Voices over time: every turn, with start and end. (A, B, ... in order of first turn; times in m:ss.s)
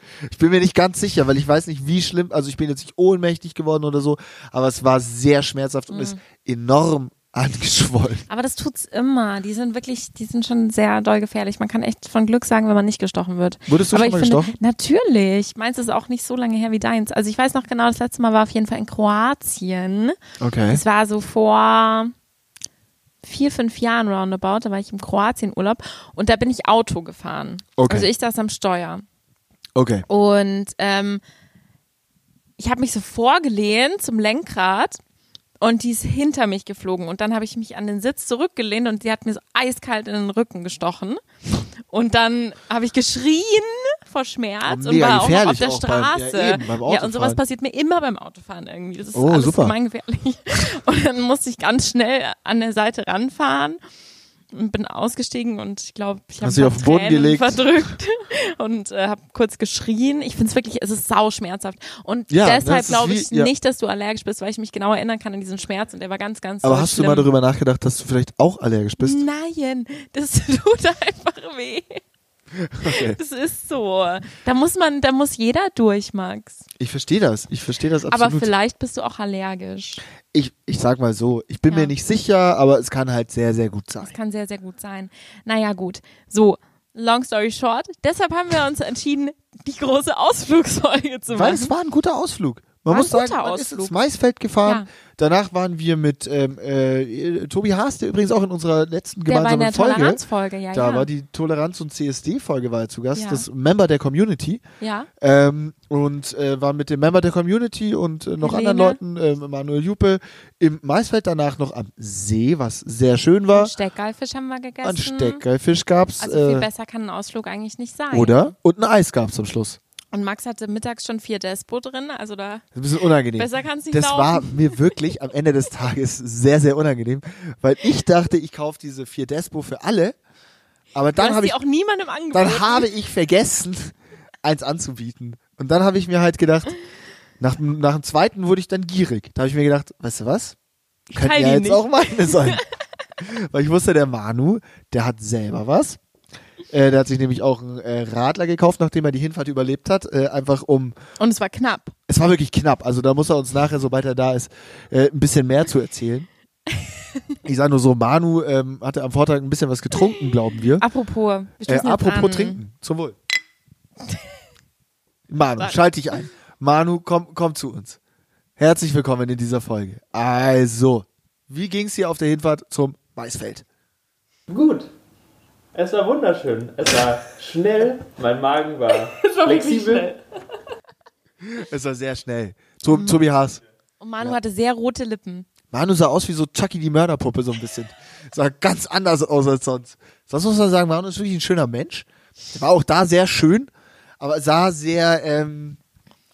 0:00.2-0:08.2 A
0:05.9-0:06.2 B
0:08.3-0:20.2 B
0:13.7-0:14.5 A
0:20.4-0:20.8 A
0:20.7-0:22.1 B
0:23.2-0:29.0 B
0:27.8-0:28.1 A
0:29.7-0:30.0 A
0:30.1-0:31.2 B
0:32.6-0:35.0 B
0:35.6-0:41.2 B
0:41.9-0:53.8 B
0:44.6-0:47.4 A
0:49.1-0:49.8 A
0:54.5-1:07.3 B
0:56.4-0:57.6 A
1:02.3-1:03.5 A
1:06.6-1:09.2 A
1:09.0-1:12.0 B
1:12.6-1:13.2 A
1:12.8-1:16.6 B
1:16.8-1:18.5 A
1:18.1-1:20.0 B
1:20.3-1:24.1 A
1:24.0-1:31.7 B
1:31.3-1:40.2 A
1:32.9-1:33.9 B
1:39.3-1:41.1 B
1:40.7-1:44.6 A
1:43.2-1:43.4 B
1:44.8-1:45.1 B
1:45.2-1:53.7 A
1:48.4-1:49.0 B
1:53.5-1:55.4 B
1:54.8-1:56.7 A
1:56.2-1:58.5 B
1:58.1-1:59.8 A
2:00.1-2:02.6 B
2:02.7-2:10.2 A
2:03.4-2:04.7 B
2:10.9-2:11.6 A
2:11.2-2:12.9 B
2:12.3-2:16.7 A
2:17.4-2:20.5 A
2:21.1-2:22.6 A
2:21.1-2:22.6 B
2:23.2-2:26.0 A
2:26.7-2:31.0 A
2:31.2-2:31.9 B
2:32.1-2:36.3 A
2:37.4-2:40.8 A
2:40.8-2:42.6 B
2:41.6-2:43.2 A
2:45.3-2:48.0 A
2:48.6-2:53.6 A
2:54.5-2:54.9 C
2:55.7-3:00.1 C
2:59.2-3:00.2 B
3:01.4-3:03.6 A
3:02.9-3:03.2 B
3:04.0-3:05.5 B
3:05.7-3:15.8 A